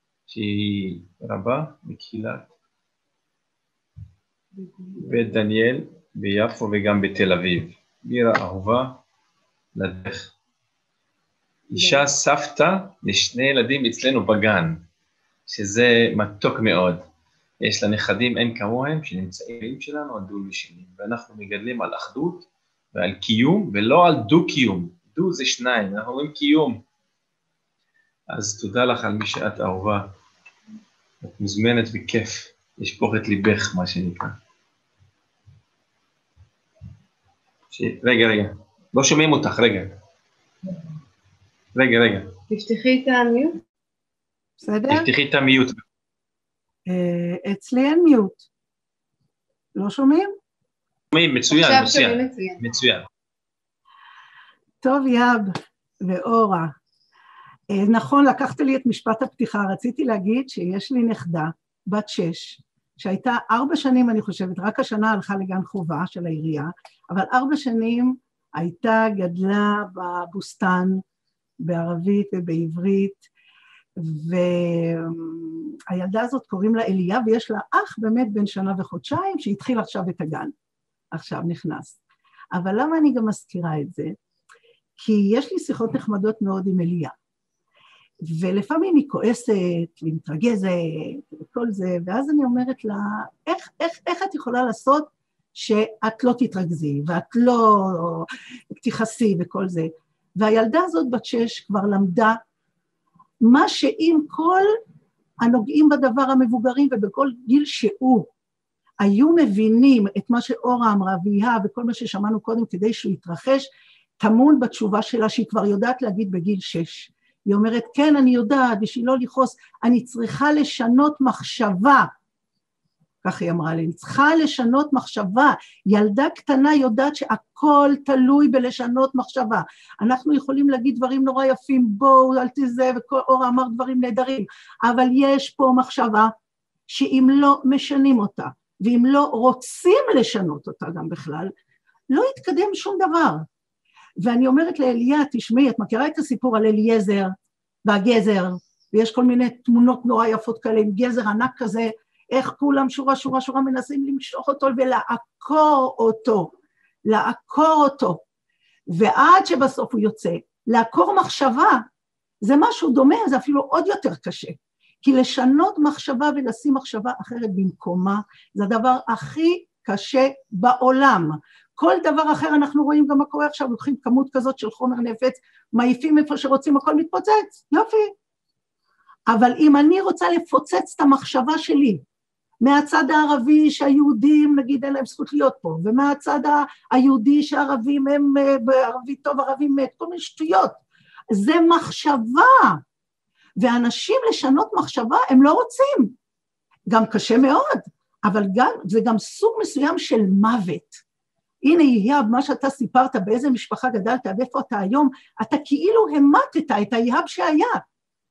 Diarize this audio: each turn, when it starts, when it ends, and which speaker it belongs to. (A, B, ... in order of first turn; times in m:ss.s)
0:00.3-0:02.5 A
0:04.6-0:05.0 B
0:05.0-0:09.0 A
0:09.7-0:10.3 A
0:11.7-0:14.8 A
0:11.8-0:12.1 B
0:15.5-0:17.0 A
0:17.6-0:26.8 A
0:28.3-0:30.1 A
0:31.2-0:34.4 A
0:37.7-0:39.9 A
0:41.7-0:42.4 A
0:42.5-0:43.6 B
0:44.6-0:45.1 C
0:44.9-0:45.8 A
0:46.9-0:48.5 C
0:49.8-0:50.3 C
0:51.1-0:53.1 A
0:51.5-0:52.6 B
0:54.8-0:56.7 C
0:57.7-1:11.0 C
1:11.6-1:13.3 C
1:14.0-1:20.5 C
1:21.1-1:22.0 C
1:22.5-1:24.1 C
1:25.0-1:27.1 C
1:28.2-1:42.4 C
1:43.4-1:44.7 C
1:45.4-1:48.3 C
1:49.0-1:53.7 C
1:54.2-2:02.1 C
2:03.2-2:16.3 C
2:16.9-2:21.5 C
2:22.1-2:23.4 C
2:24.2-2:27.3 C
2:27.8-2:36.5 C
2:37.0-2:38.2 C
2:38.9-2:41.8 C
2:42.4-2:58.1 C
2:59.3-3:02.0 C
3:02.6-3:10.8 C
3:11.3-3:12.8 C
3:13.6-3:16.1 C
3:16.9-3:21.0 C
3:21.6-3:27.8 C